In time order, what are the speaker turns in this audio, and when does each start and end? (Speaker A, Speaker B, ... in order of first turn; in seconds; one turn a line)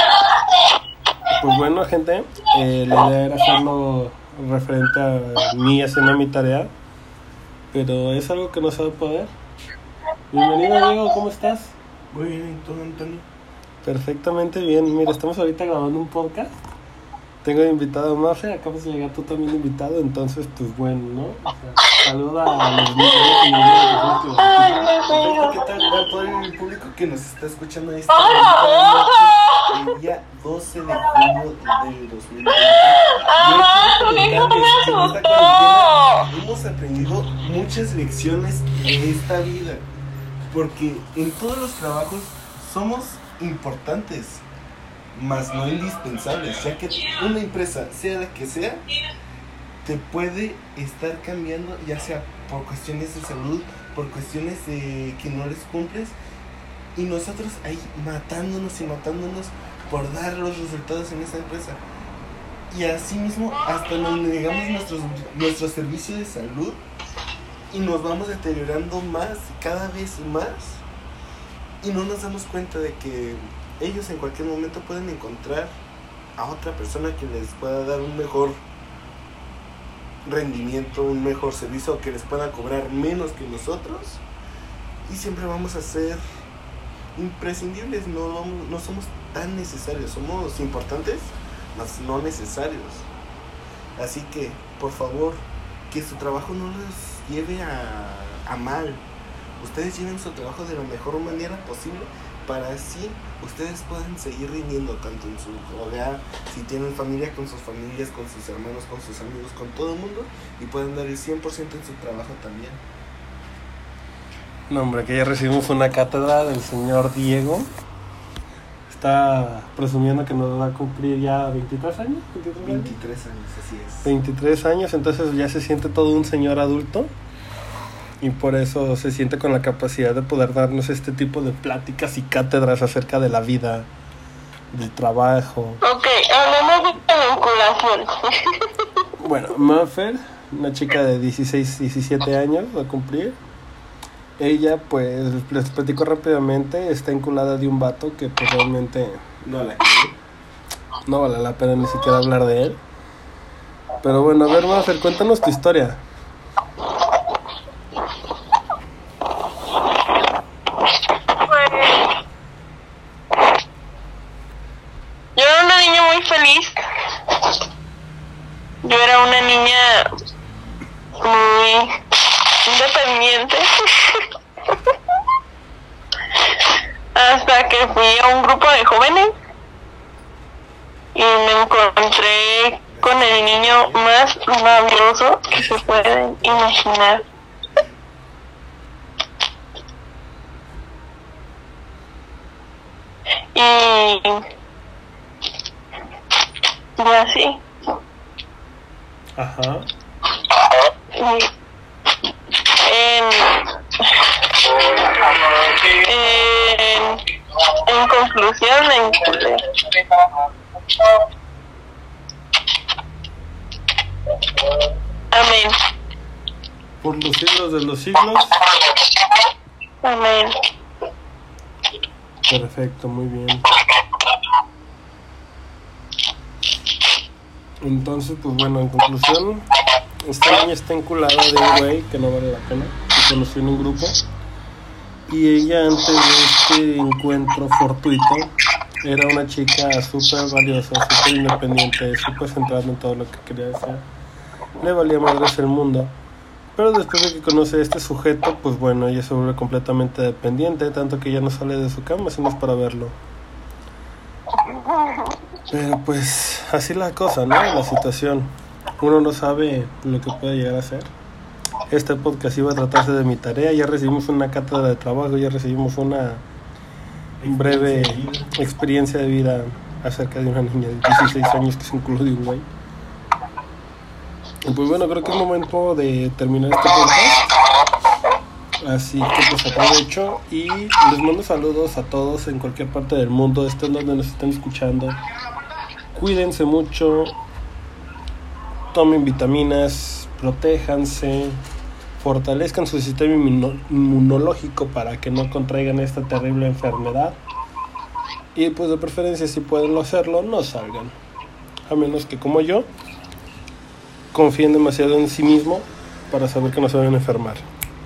Speaker A: 1.3-6.7
Speaker A: 7.7-9.3
Speaker A: 10.3-11.8
Speaker B: 12.1-13.3
Speaker A: 13.8-16.6
Speaker A: 17.4-24.9
Speaker C: 24.4-25.6
Speaker B: 25.1-39.9
Speaker C: 33.2-36.2
Speaker B: 40.5-44.4
Speaker B: 45.1-48.9
Speaker B: 49.8-56.1
Speaker B: 57.0-61.8
Speaker B: 62.7-66.8
Speaker B: 67.7-70.8
Speaker B: 71.8-75.7
Speaker B: 76.4-78.6
Speaker B: 80.2-84.2
Speaker B: 85.1-86.2
Speaker B: 87.2-93.1
Speaker B: 94.0-99.0
Speaker B: 99.6-112.8
Speaker A: 114.7-117.7
Speaker A: 118.9-123.0
Speaker B: 122.6-124.1
Speaker A: 124.0-127.1
Speaker A: 128.2-133.9
Speaker A: 134.7-135.8
Speaker C: 135.8-138.5
Speaker A: 139.2-143.4
Speaker A: 144.4-149.3
Speaker B: 149.4-150.2
Speaker A: 151.1-152.8
Speaker A: 154.0-156.0
Speaker C: 161.5-162.1
Speaker C: 165.4-167.6
Speaker C: 168.8-170.1
Speaker C: 171.2-171.9
Speaker C: 172.7-174.3
Speaker C: 177.2-179.3
Speaker C: 181.1-187.2
Speaker B: 182.9-186.7
Speaker C: 193.6-194.4
Speaker C: 197.0-197.6
Speaker A: 199.4-199.9
Speaker C: 201.1-201.5
Speaker C: 202.8-204.3
Speaker C: 204.9-209.6
Speaker C: 215.3-215.8
Speaker A: 217.0-218.6
Speaker C: 220.0-220.6
Speaker A: 222.5-223.7
Speaker A: 227.8-229.7
Speaker A: 230.2-234.2
Speaker A: 235.3-238.5
Speaker A: 239.0-244.1
Speaker A: 244.8-246.1
Speaker A: 246.8-253.2
Speaker A: 255.7-261.1
Speaker A: 261.9-266.4
Speaker B: 267.4-268.5
Speaker A: 267.4-272.7
Speaker A: 274.6-277.5
Speaker A: 278.8-285.2
Speaker A: 286.2-287.4
Speaker A: 288.9-291.6
Speaker A: 292.2-297.4
Speaker A: 298.6-301.1
Speaker A: 301.9-302.9
Speaker A: 304.3-307.7